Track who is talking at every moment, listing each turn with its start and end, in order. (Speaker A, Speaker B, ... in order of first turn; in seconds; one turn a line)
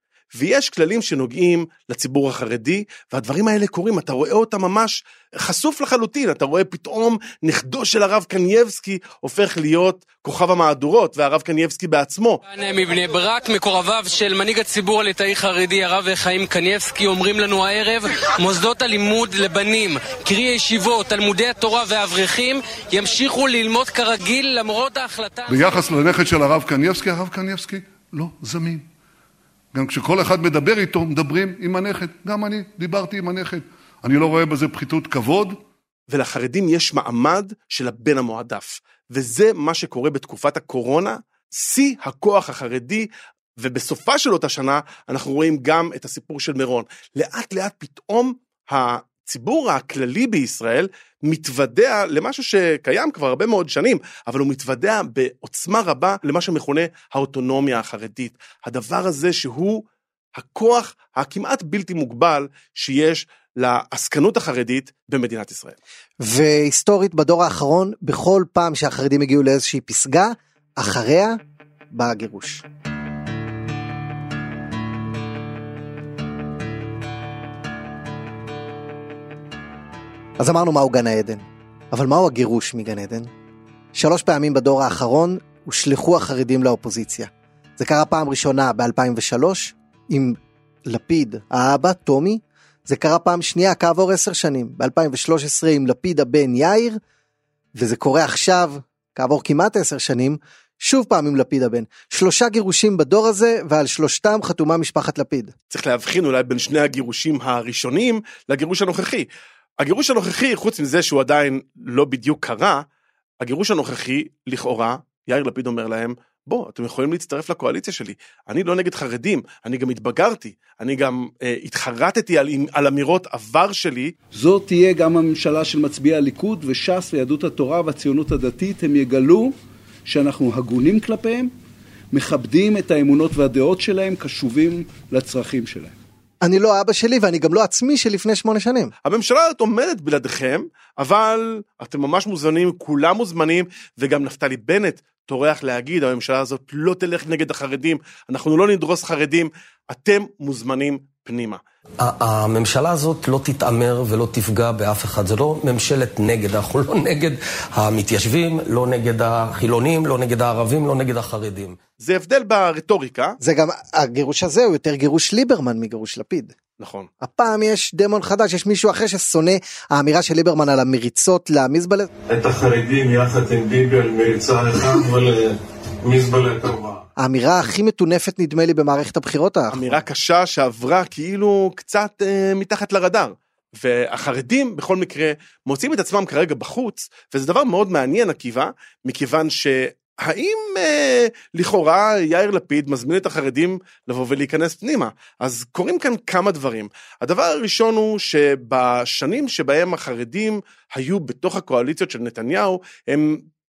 Speaker A: 0.3-12.4
Speaker B: 12.4-25.7
Speaker C: 25.5-28.8
Speaker C: 29.7-35.6
Speaker A: 36.1-59.8
Speaker A: 60.3-65.8
Speaker D: 66.2-71.4
Speaker D: 71.9-72.6
Speaker D: 80.4-83.3
Speaker D: 83.9-97.0
Speaker D: 97.8-105.5
Speaker A: 105.7-109.3
Speaker A: 109.8-112.8
Speaker A: 113.4-124.1
Speaker E: 124.3-129.5
Speaker E: 130.1-131.5
Speaker E: 132.1-135.9
Speaker D: 136.4-138.9
Speaker A: 139.0-151.6
Speaker F: 152.0-161.8
Speaker A: 162.0-163.4
Speaker D: 163.4-166.5
Speaker A: 166.8-167.1
Speaker D: 167.2-172.1
Speaker G: 172.3-177.0
Speaker D: 177.2-179.9
Speaker A: 179.7-203.4